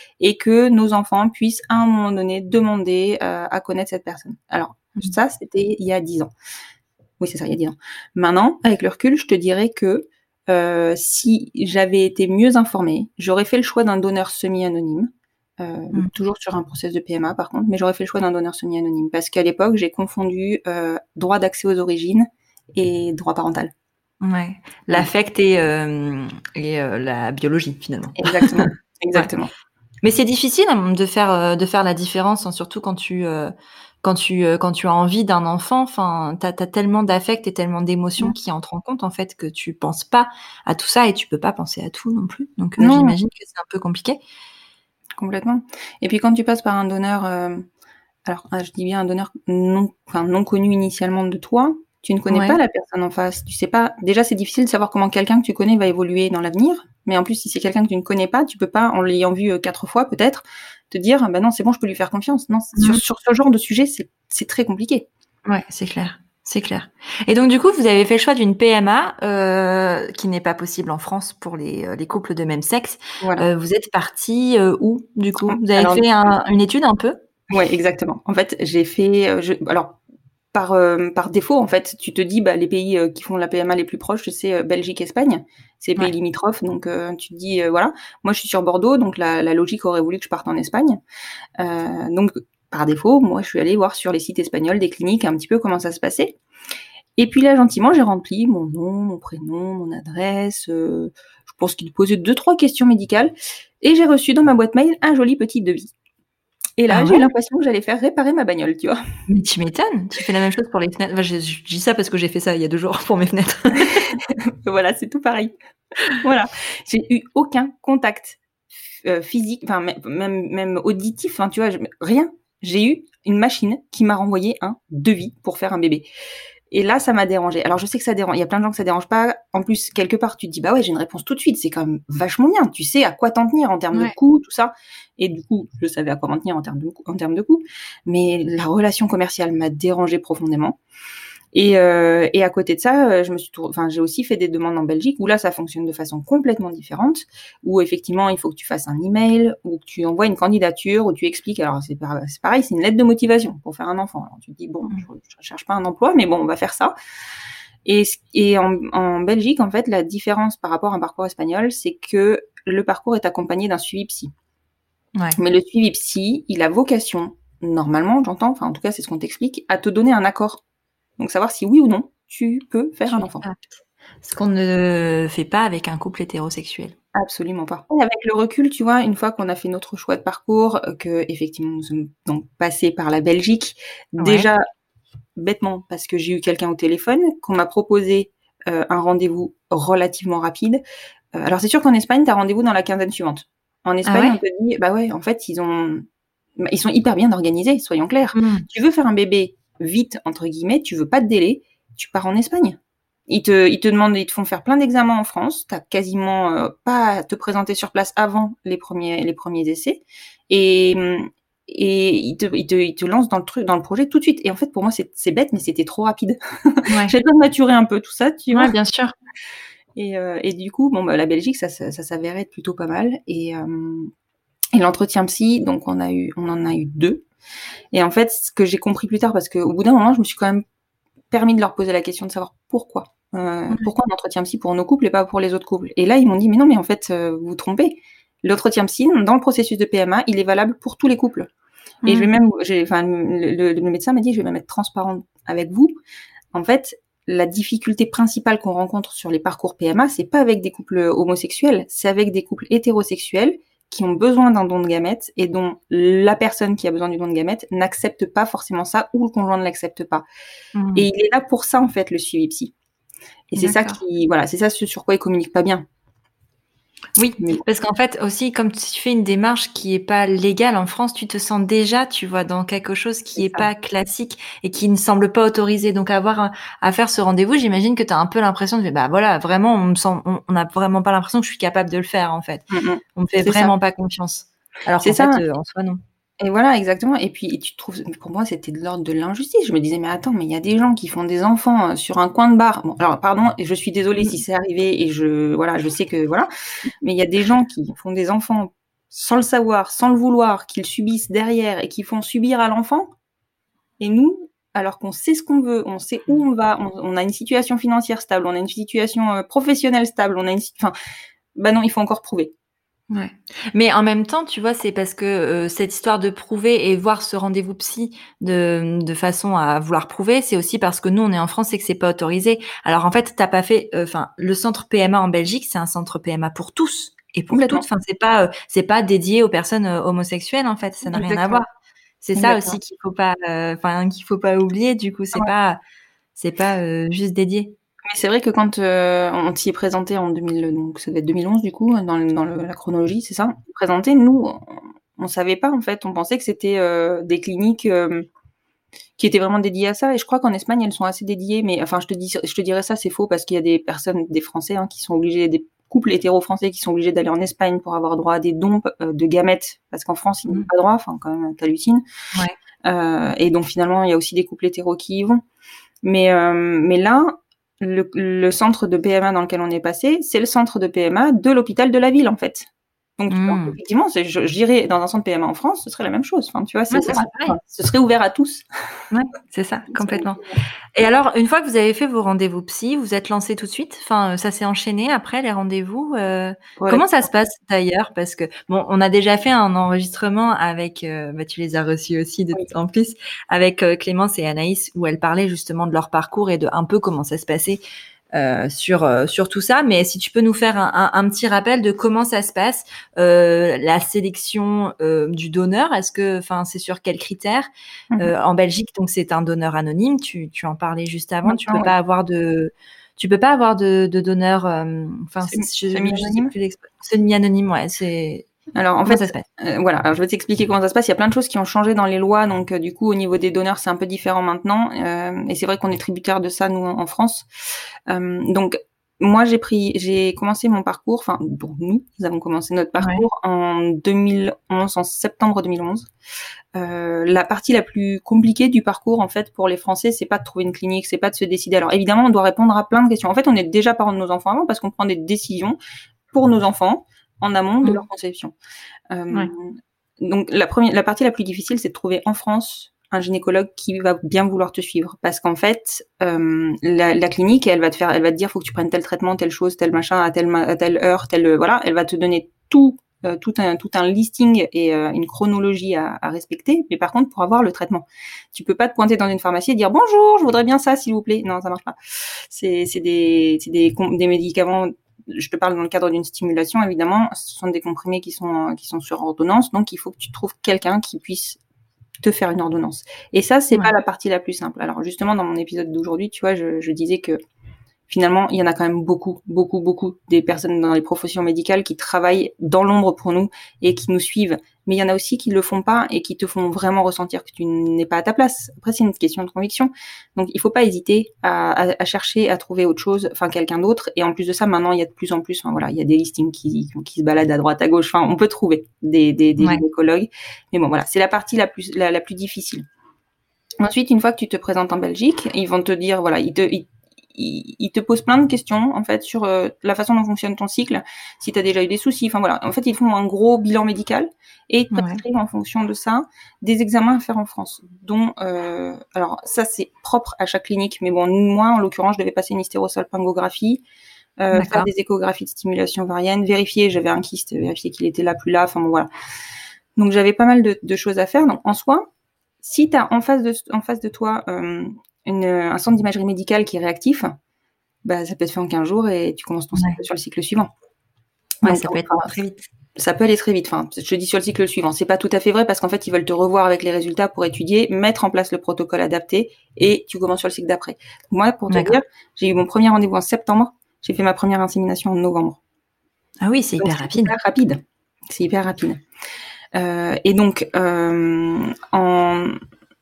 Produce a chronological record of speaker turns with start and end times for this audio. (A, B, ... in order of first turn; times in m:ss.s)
0:00.2-0:06.3 A
0:07.2-0:23.7 A
0:24.2-0:29.3 B
0:28.2-0:29.5 A
0:30.0-0:44.2 B
0:42.8-0:43.2 A
0:45.2-0:47.6 A
0:48.2-1:05.1 A
0:52.3-0:52.6 B
1:02.7-1:03.0 B
1:05.4-1:17.2 B
1:15.4-1:16.0 A
1:17.5-1:20.0 A
1:20.5-1:31.0 A
1:31.6-1:36.4 A
1:37.2-1:45.9 A
1:46.8-1:49.0 A
1:46.9-1:47.3 B
1:49.3-1:54.1 B
1:54.1-1:55.5 A
1:56.1-1:58.4 A
1:59.0-2:06.0 A
2:06.7-2:20.8 A
2:21.5-2:36.9 A
2:37.8-2:44.3 A
2:45.4-2:50.6 A
2:51.2-2:53.4 A
2:53.1-2:53.6 B
2:54.2-2:56.9 B
2:57.1-3:04.6 A
3:04.2-3:04.5 B
3:05.4-3:10.8 A
3:11.3-3:16.0 A
3:14.0-3:14.4 B
3:16.6-3:38.7 A
3:18.3-3:18.6 B
3:36.9-3:37.1 B
3:38.5-3:39.1 B
3:40.0-3:44.1 A
3:44.7-3:47.2 A
3:47.9-3:50.6 A
3:51.3-4:01.5 A
4:02.0-4:05.9 A
4:02.0-4:02.3 B
4:06.5-4:20.2 A
4:20.8-4:21.0 B
4:20.9-4:22.7 A
4:23.5-4:25.8 A
4:23.6-4:24.0 B
4:27.2-4:46.0 B
4:27.4-4:27.6 A
4:33.4-4:33.7 A
4:42.7-4:43.7 A
4:45.0-4:45.4 A
4:46.4-4:56.5 A
4:57.0-5:03.1 A
5:04.0-5:10.9 A
5:11.5-5:12.5 A
5:13.1-5:31.7 B
5:27.5-5:27.8 A
5:31.1-5:31.6 A
5:32.2-5:35.8 B
5:32.4-5:32.8 A
5:36.4-5:37.7 B
5:38.1-5:48.3 A
5:49.2-6:02.0 A
6:02.8-6:05.4 A
6:06.0-6:18.6 A
6:13.3-6:13.8 B
6:16.9-6:17.6 B
6:19.1-6:20.4 B
6:19.9-6:20.6 A
6:20.9-6:37.8 B
6:26.8-6:27.1 A
6:38.3-6:47.7 B
6:48.2-6:58.5 B
6:51.4-6:51.9 A
6:55.4-6:56.5 A
6:58.7-7:07.5 A
6:59.0-6:59.4 B
7:08.1-7:16.1 A
7:13.0-7:13.2 B
7:16.7-7:25.8 A
7:26.3-7:28.5 A
7:29.1-8:01.6 A
8:02.2-8:07.4 A
8:08.1-8:32.8 A
8:33.8-8:53.8 A
8:44.9-8:45.2 B
8:54.4-8:59.1 A
8:54.5-8:54.9 B
9:00.0-9:02.1 A
9:02.6-9:07.3 A
9:08.0-9:10.7 A
9:11.6-9:12.4 A
9:11.6-9:12.6 B
9:13.0-9:25.6 A
9:21.7-9:22.0 B
9:26.4-9:27.3 B
9:26.8-9:29.0 A
9:29.7-9:32.6 A